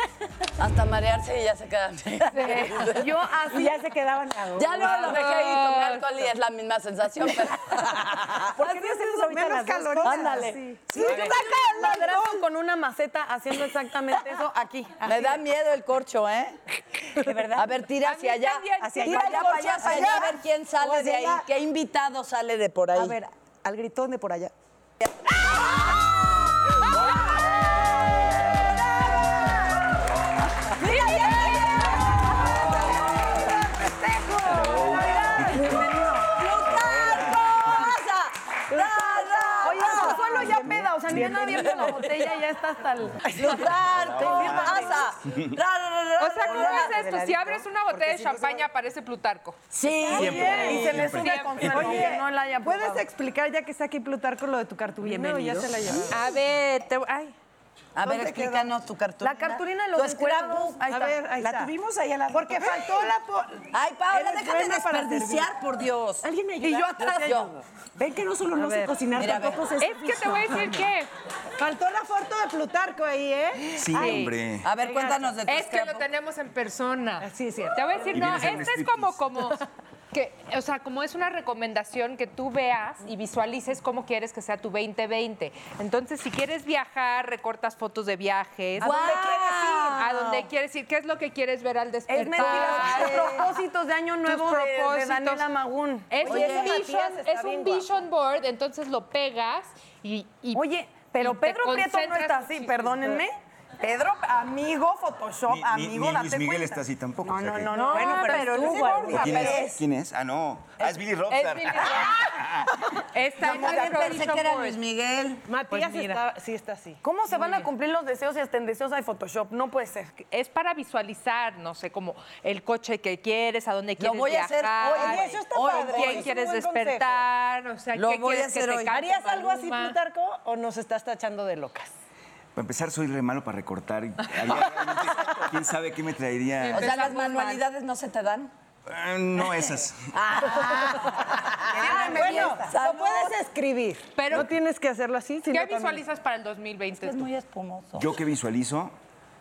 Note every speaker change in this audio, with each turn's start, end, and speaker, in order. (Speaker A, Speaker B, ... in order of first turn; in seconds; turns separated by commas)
Speaker A: 0.6-3.1, Speaker B: 2.3-2.9, Speaker C: 2.5-3.9, Speaker D: 3.5-5.2, Speaker A: 4.5-8.5, Speaker B: 4.8-6.1, Speaker D: 8.3-12.2, Speaker E: 8.6-12.4, Speaker A: 10.1-10.6, Speaker C: 10.1-15.3, Speaker A: 15.0-16.6, Speaker D: 17.1-17.8, Speaker A: 17.5-23.2, Speaker B: 18.0-19.9, Speaker D: 18.8-21.5, Speaker C: 19.4-20.2, Speaker D: 22.9-24.5, Speaker D: 27.1-28.2, Speaker D: 30.8-34.8, Speaker E: 30.8-32.2, Speaker B: 31.2-31.8, Speaker E: 33.3-35.8, Speaker F: 34.5-35.8, Speaker C: 35.1-36.4, Speaker A: 36.3-40.4, Speaker F: 36.7-37.9, Speaker D: 38.7-41.9, Speaker E: 39.0-41.8, Speaker C: 39.6-43.2, Speaker A: 43.3-47.1, Speaker E: 44.1-45.0, Speaker D: 44.1-44.6, Speaker F: 44.2-44.6, Speaker B: 46.2-49.6, Speaker D: 46.5-48.6, Speaker E: 47.0-47.3, Speaker A: 49.7-51.0, Speaker E: 50.1-51.0, Speaker F: 50.1-52.0, Speaker D: 50.3-50.6, Speaker C: 50.5-53.0, Speaker B: 50.7-51.9, Speaker E: 51.6-56.3, Speaker D: 55.0-56.1, Speaker B: 56.1-57.3, Speaker A: 58.0-60.8, Speaker D: 58.0-58.7, Speaker E: 58.2-58.6, Speaker C: 59.2-61.3, Speaker E: 60.9-61.7, Speaker D: 61.0-63.2, Speaker E: 62.3-65.4, Speaker A: 63.7-66.3, Speaker D: 66.2-67.2, Speaker C: 66.6-67.5, Speaker E: 67.0-67.3, Speaker A: 67.0-67.5, Speaker D: 68.0-70.8, Speaker E: 68.5-69.0, Speaker A: 69.1-69.7, Speaker B: 69.8-71.1, Speaker E: 71.6-74.2, Speaker F: 73.7-74.7, Speaker B: 73.9-74.3, Speaker A: 74.6-76.1, Speaker E: 74.8-75.2, Speaker B: 75.5-89.4, Speaker E: 77.2-78.1, Speaker F: 78.0-79.3, Speaker A: 88.8-90.4, Speaker C: 88.9-89.9, Speaker E: 89.0-89.5, Speaker B: 89.9-93.4, Speaker C: 92.1-96.2, Speaker A: 92.4-93.5, Speaker B: 94.3-95.5, Speaker B: 96.1-100.6, Speaker E: 96.2-97.9, Speaker A: 96.2-96.8, Speaker C: 100.5-109.0, Speaker B: 101.2-103.2, Speaker F: 105.5-107.8, Speaker E: 107.8-109.7, Speaker D: 107.8-109.7, Speaker B: 107.9-109.7, Speaker F: 109.0-112.7, Speaker B: 111.3-112.4, Speaker B: 113.1-114.8, Speaker A: 113.4-115.5, Speaker E: 115.5-117.6, Speaker B: 115.7-116.2, Speaker C: 117.0-120.1, Speaker B: 120.2-130.0, Speaker A: 124.0-126.3, Speaker E: 124.9-127.3, Speaker A: 127.9-128.9, Speaker E: 128.9-131.9, Speaker F: 132.6-137.1, Speaker B: 136.6-137.6, Speaker A: 136.6-138.5, Speaker F: 138.9-140.1, Speaker A: 140.1-143.4, Speaker E: 141.7-146.0, Speaker D: 141.7-142.7, Speaker B: 144.2-144.5, Speaker B: 145.5-147.3, Speaker A: 147.0-148.2, Speaker F: 147.9-148.9